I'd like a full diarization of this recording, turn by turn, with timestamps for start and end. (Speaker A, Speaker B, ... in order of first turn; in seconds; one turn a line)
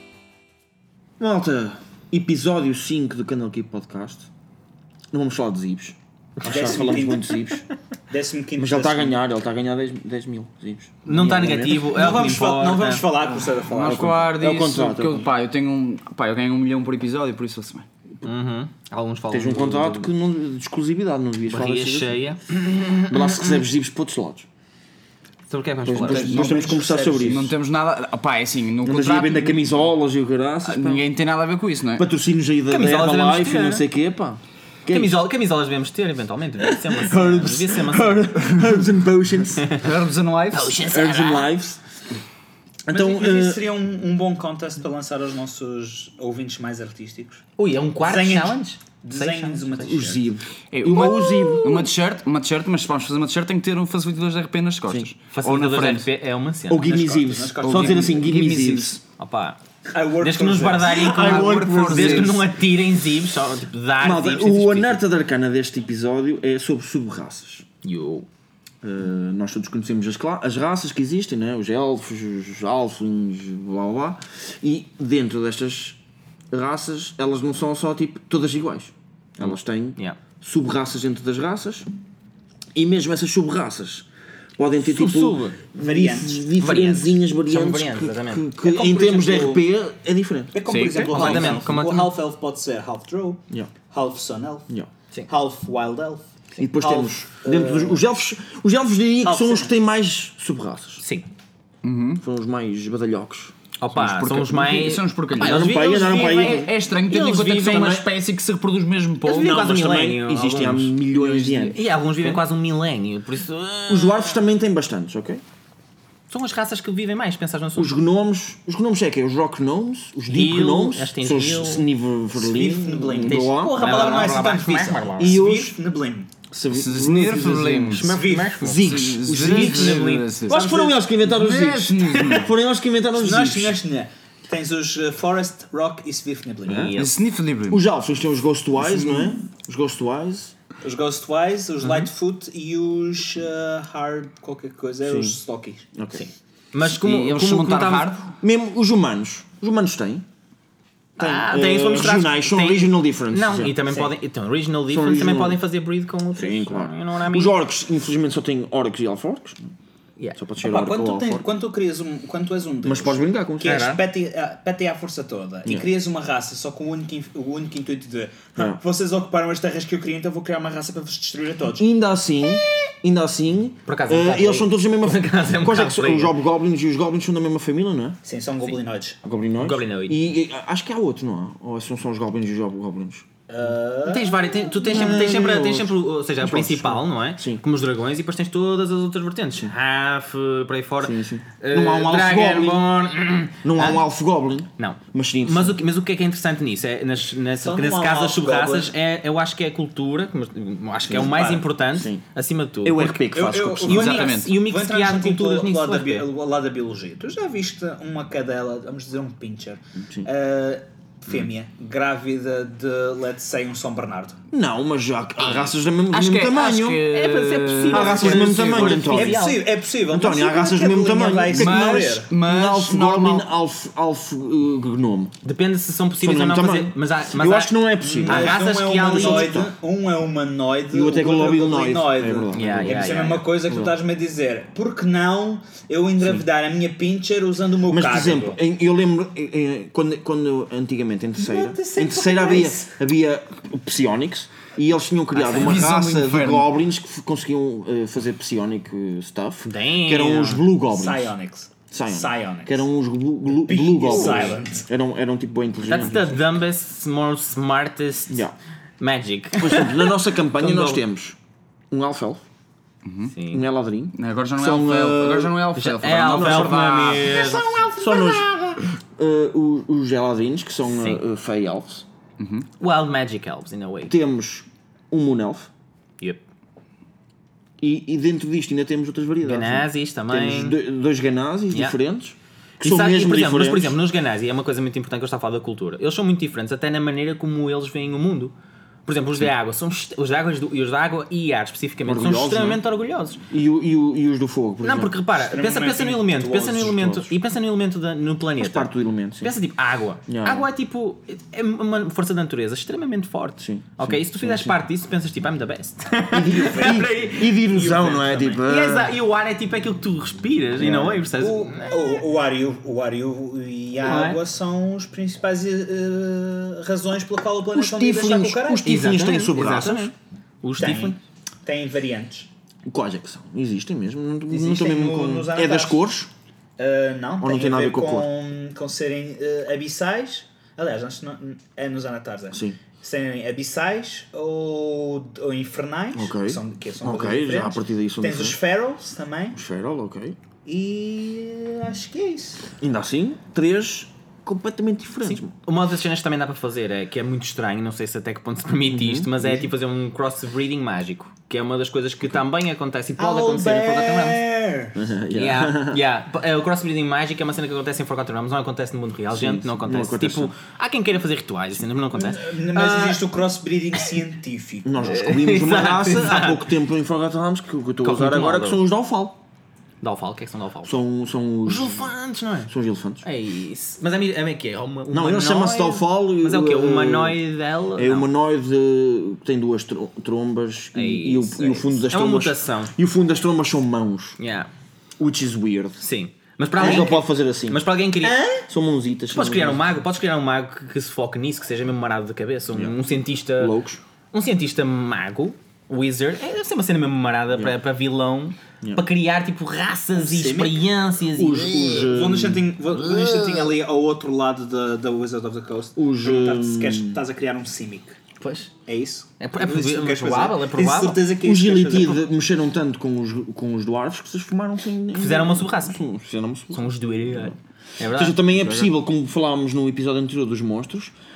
Speaker A: 1.2-4.3
Speaker A: 5.1-7.7
Speaker B: 6.4-7.3
Speaker C: 6.4-7.4
Speaker C: 8.1-9.2
Speaker A: 8.6-12.1
Speaker B: 11.0-13.1
Speaker C: 11.7-14.3
Speaker D: 13.7-17.9
Speaker A: 13.8-15.3
Speaker B: 18.2-20.1
Speaker A: 19.3-22.2
Speaker B: 21.5-23.6
Speaker A: 23.1-24.4
Speaker B: 25.5-26.4
Speaker A: 25.8-27.5
Speaker D: 26.1-29.7
Speaker C: 26.2-27.5
Speaker A: 28.8-31.1
Speaker D: 30.6-32.0
Speaker A: 31.9-35.2
Speaker B: 32.7-33.8
Speaker B: 34.9-38.5
Speaker A: 36.6-39.7
Speaker B: 39.6-39.9
Speaker D: 39.8-40.8
Speaker B: 40.5-41.5
Speaker A: 40.8-41.8
Speaker A: 42.9-43.6
Speaker C: 42.9-47.4
Speaker B: 47.6-49.9
Speaker C: 48.0-50.2
Speaker A: 49.8-51.9
Speaker D: 50.7-56.1
Speaker A: 54.9-55.1
Speaker B: 55.3-56.8
Speaker A: 56.7-59.0
Speaker C: 56.8-58.3
Speaker D: 57.7-59.0
Speaker B: 59.2-59.6
Speaker C: 59.9-61.0
Speaker B: 60.2-65.0
Speaker A: 60.8-62.5
Speaker D: 61.1-62.4
Speaker A: 64.0-67.6
Speaker B: 67.8-68.3
Speaker A: 68.8-76.0
Speaker A: 76.5-81.9
Speaker B: 79.4-80.2
Speaker A: 82.7-91.6
Speaker B: 84.8-85.6
Speaker C: 85.7-86.5
Speaker B: 86.6-88.5
Speaker C: 88.6-89.6
Speaker C: 90.5-94.7
Speaker D: 90.7-91.5
Speaker B: 91.1-92.1
Speaker C: 95.3-98.0
Speaker A: 96.6-101.0
Speaker C: 99.2-99.7
Speaker B: 101.0-101.3
Speaker D: 101.8-102.2
Speaker A: 102.2-103.5
Speaker B: 103.8-108.0
Speaker D: 103.9-109.6
Speaker A: 105.4-108.1
Speaker B: 109.2-111.0
Speaker A: 109.3-112.4
Speaker D: 111.1-111.8
Speaker B: 111.6-114.4
Speaker A: 113.9-115.4
Speaker B: 116.3-117.9
Speaker A: 117.7-124.5
Speaker B: 120.3-121.9
Speaker C: 122.3-126.3
Speaker B: 123.3-125.4
Speaker A: 125.2-125.7
Speaker A: 126.5-133.8
Speaker D: 126.7-128.1
Speaker B: 127.9-130.6
Speaker C: 128.0-128.6
Speaker D: 128.7-130.7
Speaker D: 131.2-132.5
Speaker C: 133.1-136.9
Speaker A: 136.7-136.9
Speaker B: 136.7-137.1
Speaker D: 137.0-137.8
Speaker A: 137.7-140.5
Speaker D: 138.8-139.3
Speaker C: 140.8-145.8
Speaker B: 141.8-142.1
Speaker A: 145.0-145.4
Speaker A: 145.9-146.2
Speaker B: 146.1-148.2
Speaker D: 146.8-148.3
Speaker A: 148.3-150.2
Speaker B: 151.2-157.5
Speaker A: 151.2-153.8
Speaker A: 154.9-155.6
Speaker A: 156.3-159.6
Speaker A: 160.3-161.4
Speaker C: 160.6-171.8
Speaker A: 162.8-163.9
Speaker B: 163.6-164.0
Speaker A: 171.8-178.2
Speaker B: 173.9-176.3
Speaker C: 178.2-179.2
Speaker A: 179.2-183.2
Speaker B: 179.6-180.2
Speaker C: 183.5-184.7
Speaker B: 184.1-194.0
Speaker A: 184.8-187.6
Speaker A: 191.0-192.9
Speaker A: 193.6-195.8
Speaker B: 194.8-203.3
Speaker C: 197.6-198.9
Speaker A: 201.1-202.2
Speaker C: 201.2-201.6
Speaker A: 202.8-204.3
Speaker C: 203.3-214.4
Speaker B: 203.9-206.2
Speaker D: 203.9-204.5
Speaker A: 214.5-217.1
Speaker D: 216.1-218.1
Speaker B: 216.9-219.6
Speaker A: 217.9-219.5
Speaker C: 218.0-222.3
Speaker A: 220.1-225.3
Speaker D: 221.5-223.5
Speaker B: 225.4-229.6
Speaker A: 226.2-229.7
Speaker C: 228.0-238.6
Speaker A: 230.9-233.0
Speaker B: 232.5-233.4
Speaker A: 237.9-251.3
Speaker C: 241.3-242.9
Speaker B: 245.3-245.9
Speaker D: 245.5-246.7
Speaker B: 249.6-250.7
Speaker C: 250.9-252.8
Speaker A: 251.9-256.4
Speaker C: 253.6-254.8
Speaker B: 254.1-254.5
Speaker B: 255.9-258.4
Speaker A: 258.3-258.5
Speaker B: 259.0-261.0
Speaker A: 259.6-261.4
Speaker A: 261.9-262.4
Speaker D: 263.0-263.3
Speaker B: 263.3-263.6
Speaker A: 263.5-272.1
Speaker D: 264.1-267.4
Speaker B: 265.8-268.4
Speaker B: 270.9-271.2
Speaker D: 272.4-272.7
Speaker B: 272.8-274.1
Speaker A: 274.1-275.7
Speaker A: 277.8-284.0
Speaker B: 279.4-280.8
Speaker B: 282.8-288.5
Speaker B: 289.1-293.4
Speaker A: 292.0-292.8
Speaker A: 293.5-295.1
Speaker B: 294.8-307.5
Speaker C: 295.4-297.0
Speaker A: 296.8-297.3
Speaker A: 298.6-299.5
Speaker A: 300.3-300.7
Speaker A: 303.6-304.7
Speaker A: 306.3-309.1
Speaker C: 306.4-308.6
Speaker B: 308.6-312.0
Speaker A: 310.8-311.3
Speaker C: 311.4-318.9
Speaker B: 314.0-314.4
Speaker A: 317.7-320.1
Speaker B: 318.8-321.2
Speaker C: 320.8-322.5
Speaker A: 322.9-326.3
Speaker C: 324.5-326.0
Speaker C: 326.8-339.6
Speaker A: 327.4-328.3
Speaker A: 332.5-332.8
Speaker A: 336.1-338.6
Speaker A: 339.5-340.4
Speaker C: 340.6-342.7
Speaker A: 342.8-345.5
Speaker B: 345.2-354.4
Speaker A: 348.9-349.7
Speaker C: 353.2-355.0
Speaker A: 354.9-356.0
Speaker B: 355.3-363.2
Speaker A: 359.3-360.5
Speaker C: 362.1-365.3
Speaker A: 364.8-369.4
Speaker B: 365.0-366.7
Speaker B: 368.0-368.8
Speaker B: 370.0-370.9
Speaker A: 370.8-372.1
Speaker B: 371.6-372.7
Speaker A: 372.7-373.2
Speaker B: 373.2-378.3
Speaker A: 375.1-377.4
Speaker A: 377.9-384.4
Speaker B: 380.9-382.9
Speaker B: 384.4-384.7
Speaker A: 385.2-386.0
Speaker B: 386.0-388.4
Speaker A: 386.8-387.9
Speaker C: 386.8-387.1
Speaker C: 388.2-388.6
Speaker A: 388.6-389.9
Speaker B: 389.3-393.8
Speaker A: 393.6-394.0
Speaker B: 394.3-402.1
Speaker C: 400.1-400.9
Speaker A: 401.3-402.7
Speaker C: 402.0-408.1
Speaker A: 405.9-407.2
Speaker B: 408.4-408.7
Speaker C: 408.9-412.2
Speaker B: 409.4-411.2
Speaker A: 411.4-417.5
Speaker B: 415.1-416.0
Speaker B: 416.7-418.9
Speaker A: 418.1-421.1